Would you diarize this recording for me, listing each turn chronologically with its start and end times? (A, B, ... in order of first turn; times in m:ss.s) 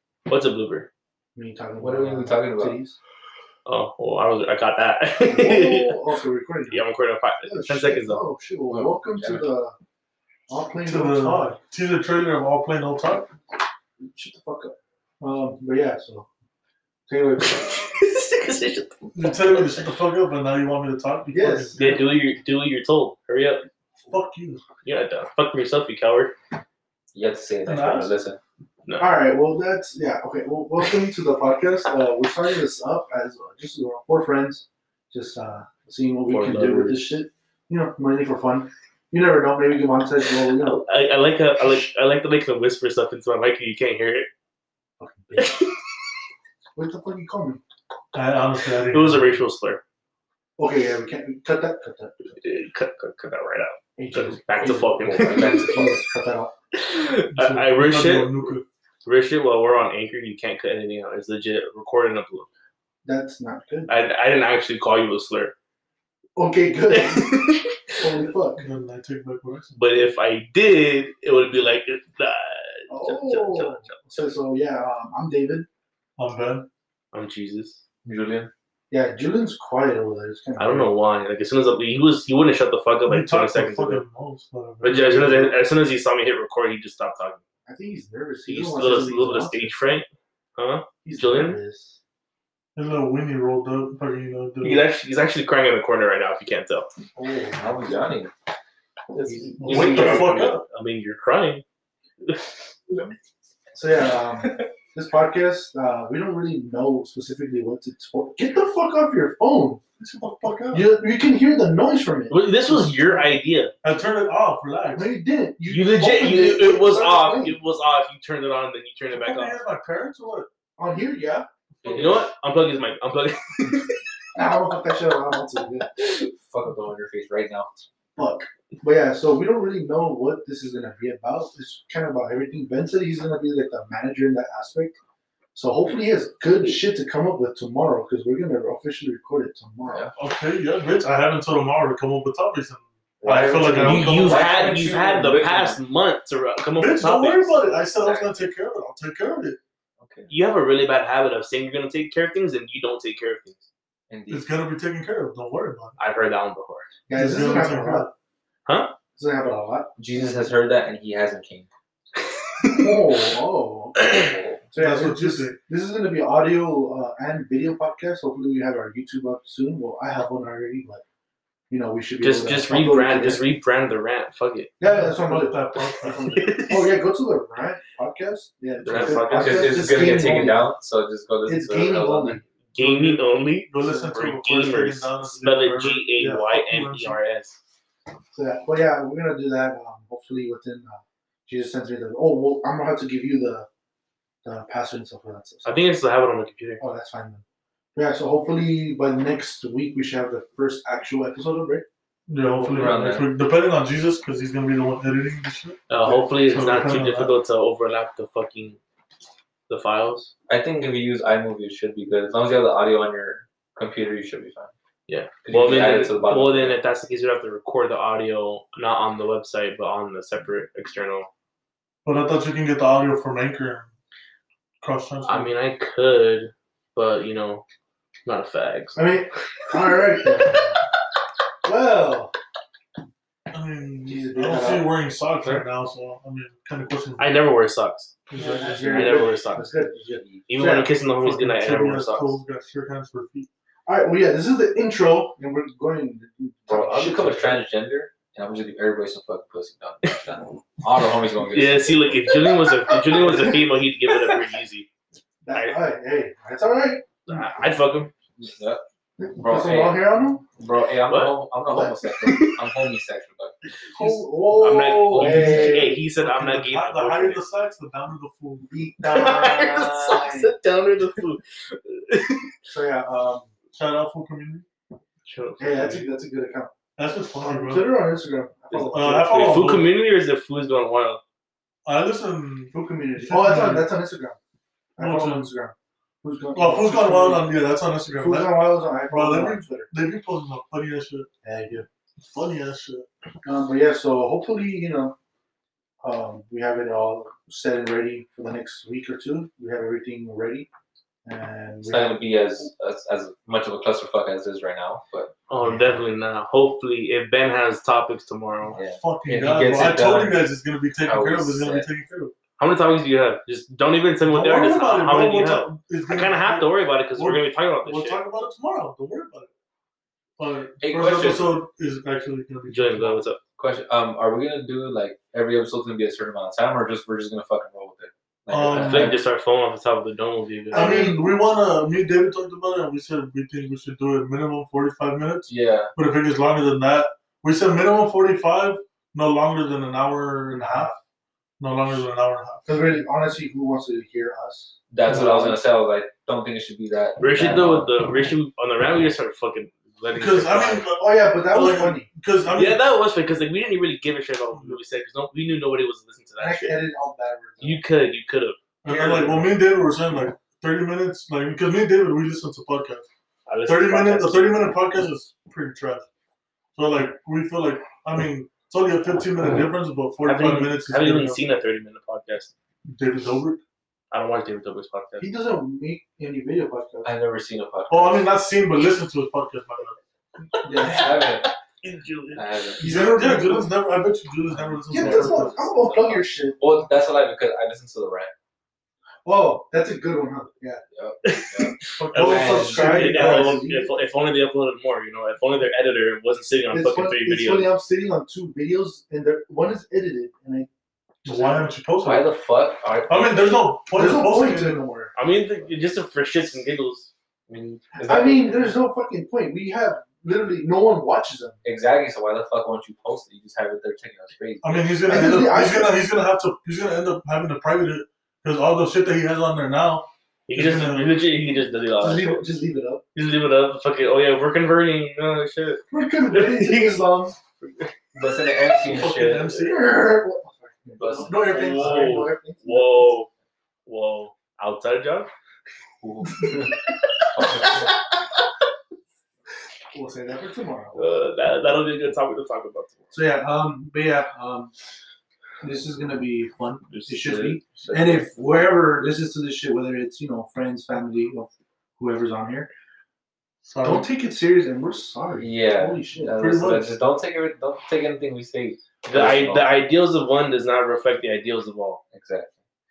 0:00.3-0:00.9 A
0:01.3-0:03.0 B
0:01.7-0:02.8 C
0:03.6-0:06.0 A
0:05.3-0:06.8 B
0:06.7-0:08.2 A
0:07.4-0:09.7 B
0:08.7-0:09.5 C
0:10.5-0:11.6 B
0:10.8-0:13.3 D
0:14.0-0:16.3 B
0:17.1-0:17.7 B
0:17.4-0:19.8 A
0:19.1-0:22.0 D
0:21.3-0:22.0 B
0:21.8-0:23.6 A
0:24.1-0:24.6 D
0:24.8-0:26.3 A
0:27.1-0:28.4 C
0:27.6-0:28.1 D
0:28.8-0:29.1 A
0:29.0-0:40.8 B
0:36.3-0:37.0 A
0:40.4-0:44.3 A
0:45.0-0:45.6 B
0:45.4-0:45.7 A
0:46.7-0:47.6 B
0:48.1-0:49.3 D
0:48.9-0:49.8 A
0:50.6-0:52.4 B
0:52.4-0:56.0 A
0:54.0-0:56.5 B
0:56.7-0:58.4 A
0:57.3-0:58.6 D
0:59.0-1:02.5 A
1:03.0-1:03.9 B
1:03.9-1:05.5 A
1:06.4-1:07.4 B
1:06.9-1:08.0 A
1:08.0-1:08.6 B
1:08.6-1:09.8 D
1:09.8-1:14.3 A
1:12.9-1:15.7 B
1:16.2-1:16.7 D
1:17.1-1:17.8 A
1:18.0-1:18.5 C
1:18.9-1:20.9 B
1:20.6-1:24.0 A
1:23.1-1:25.6 D
1:24.8-1:27.4 A
1:27.6-1:29.8 B
1:28.5-1:31.6 A
1:31.0-1:32.0 B
1:32.7-1:34.9 D
1:34.6-1:36.9 A
1:37.1-1:37.9 B
1:37.6-1:38.3 C
1:39.2-1:41.6 A
1:39.2-1:40.3 B
1:39.6-1:40.6 D
1:42.2-1:43.0 A
1:43.7-1:49.8 B
1:50.0-1:50.9 D
1:50.7-1:53.2 B
1:52.3-1:53.7 A
1:53.8-1:55.1 D
1:54.9-1:57.6 B
1:55.7-1:59.6 A
1:59.1-2:00.5 D
2:00.8-2:01.5 B
2:01.8-2:02.3 C
2:01.9-2:04.0 A
2:04.3-2:05.9 B
2:06.0-2:07.8 C
2:08.2-2:15.0 B
2:15.5-2:20.1 B
2:19.8-2:20.1 C
2:20.2-2:24.5 D
2:23.2-2:25.8 C
2:23.7-2:27.6 A
2:26.8-2:29.6 D
2:28.0-2:28.5 C
2:30.0-2:30.3 C
2:30.3-2:33.6 A
2:34.1-2:34.5 C
2:34.3-2:36.0 D
2:36.0-2:36.9 A
2:37.1-2:38.1 B
2:37.1-2:38.1 D
2:38.6-2:38.9 A
2:39.1-2:39.9 B
2:40.0-2:41.7 C
2:42.6-2:43.0 A
2:42.7-2:44.0 B
2:44.0-2:44.3 A
2:44.0-2:44.6 C
2:44.7-2:51.0 B
2:44.7-2:45.6 D
2:51.7-2:53.4 B
2:52.2-2:54.7 A
2:54.8-3:00.7 B
2:54.8-2:56.5 D
2:56.2-2:56.9 A
2:58.8-3:00.3 A
2:58.9-3:02.4 C
3:01.4-3:02.4 B
3:02.7-3:07.6 A
3:02.8-3:07.2 D
3:03.8-3:04.2 B
3:08.3-3:13.7 B
3:14.4-3:15.8 B
3:15.6-3:16.8 A
3:16.8-3:17.4 B
3:17.9-3:21.8 B
3:22.3-3:27.3 D
3:22.6-3:22.9 B
3:22.7-3:23.3 C
3:25.9-3:28.8 A
3:29.7-3:30.3 A
3:30.5-3:34.7 C
3:35.1-3:41.3 A
3:35.4-3:36.8 C
3:42.0-3:43.9 D
3:44.8-3:45.5 D
3:45.2-3:47.6 A
3:48.2-3:49.1 A
3:48.9-3:50.8 B
3:51.6-3:52.3 B
3:53.5-3:57.4 D
3:54.0-3:55.0 B
3:57.2-3:58.2 A
3:58.3-3:59.3 D
3:58.4-4:01.0 B
3:58.8-3:59.7 A
4:00.0-4:00.4 C
4:00.5-4:02.4 A
4:01.2-4:03.5 D
4:03.8-4:07.6 B
4:06.7-4:12.0 C
4:11.5-4:14.9 A
4:12.6-4:13.6 B
4:15.4-4:17.8 B
4:15.5-4:15.8 A
4:17.2-4:18.1 A
4:18.4-4:18.8 C
4:19.2-4:20.5 B
4:19.4-4:23.5 C
4:21.1-4:21.3 A
4:21.7-4:22.0 B
4:22.2-4:22.6 A
4:23.9-4:26.0 B
4:24.6-4:27.4 A
4:25.1-4:25.9 C
4:25.2-4:28.7 D
4:28.7-4:30.5 B
4:29.1-4:32.5 A
4:32.7-4:33.5 B
4:33.7-4:34.7 D
4:35.2-4:36.0 A
4:35.6-4:36.7 B
4:37.0-4:38.0 D
4:37.4-4:39.4 B
4:38.7-4:41.2 A
4:38.9-4:39.9 D
4:41.8-4:43.9 D
4:42.7-4:44.4 B
4:45.0-4:47.6 B
4:45.0-4:45.5 D
4:46.5-4:51.3 D
4:48.1-4:49.9 B
4:51.4-4:51.9 B
4:52.3-4:53.0 D
4:53.4-4:55.1 B
4:56.0-5:00.7 B
5:01.2-5:02.4 B
5:01.8-5:05.3 C
5:05.5-5:08.8 A
5:05.6-5:06.0 B
5:08.8-5:10.5 C
5:08.8-5:12.3 D
5:11.0-5:11.9 C
5:12.6-5:18.2 A
5:14.2-5:19.5 D
5:20.4-5:23.2 D
5:20.8-5:21.6 C
5:22.7-5:23.4 A
5:23.6-5:29.2 C
5:28.5-5:29.2 D
5:28.7-5:30.9 A
5:30.7-5:31.4 B
5:30.7-5:40.9 D
5:35.5-5:35.9 C
5:40.5-5:41.0 B
5:41.6-5:43.0 D
5:42.6-5:45.6 B
5:44.9-5:47.9 C
5:47.2-5:50.8 A
5:50.1-5:52.8 D
5:51.0-5:52.1 B
5:52.5-5:56.8 A
5:54.5-5:54.8 D
5:56.4-5:57.8 B
5:57.6-5:58.6 A
5:58.8-6:03.1 D
5:59.0-5:59.5 C
6:03.5-6:04.8 A
6:03.7-6:06.0 D
6:06.7-6:11.4 D
6:10.2-6:12.5 A
6:12.8-6:13.6 D
6:14.1-6:15.3 A
6:15.2-6:17.1 B
6:17.0-6:18.3 C
6:17.9-6:20.0 D
6:20.5-6:22.4 A
6:20.6-6:21.3 B
6:20.8-6:21.5 C
6:22.3-6:23.1 C
6:22.8-6:23.7 B
6:22.8-6:25.6 D
6:24.5-6:28.3 C
6:24.9-6:26.8 B
6:29.2-6:30.8 B
6:30.9-6:32.8 C
6:31.2-6:37.7 A
6:32.0-6:33.6 D
6:32.2-6:33.9 B
6:36.7-6:40.7 B
6:41.2-6:41.7 B
6:41.2-6:42.3 D
6:42.0-6:43.7 C
6:43.1-6:44.8 D
6:43.9-6:45.1 B
6:45.1-6:47.1 A
6:47.5-6:48.7 C
6:48.0-6:51.6 B
6:51.6-6:54.9 C
6:54.6-7:01.2 D
6:55.0-6:56.0 B
7:00.5-7:02.5 A
7:02.0-7:03.0 B
7:03.1-7:07.0 A
7:05.9-7:07.3 B
7:07.6-7:07.9 A
7:08.1-7:09.5 C
7:08.8-7:10.0 D
7:09.1-7:09.6 A
7:09.5-7:13.1 B
7:11.0-7:11.5 C
7:11.2-7:12.2 D
7:11.4-7:13.3 A
7:13.8-7:15.3 A
7:16.0-7:16.7 C
7:16.4-7:18.0 A
7:17.3-7:17.9 C
7:19.9-7:21.0 B
7:20.9-7:23.1 A
7:23.1-7:24.7 B
7:25.6-7:32.7 B
7:26.9-7:27.6 A
7:27.8-7:28.6 C
7:33.7-7:34.1 D
7:33.8-7:36.4 B
7:35.4-7:39.7 C
7:36.4-7:37.0 D
7:39.1-7:42.0 A
7:42.1-7:42.6 C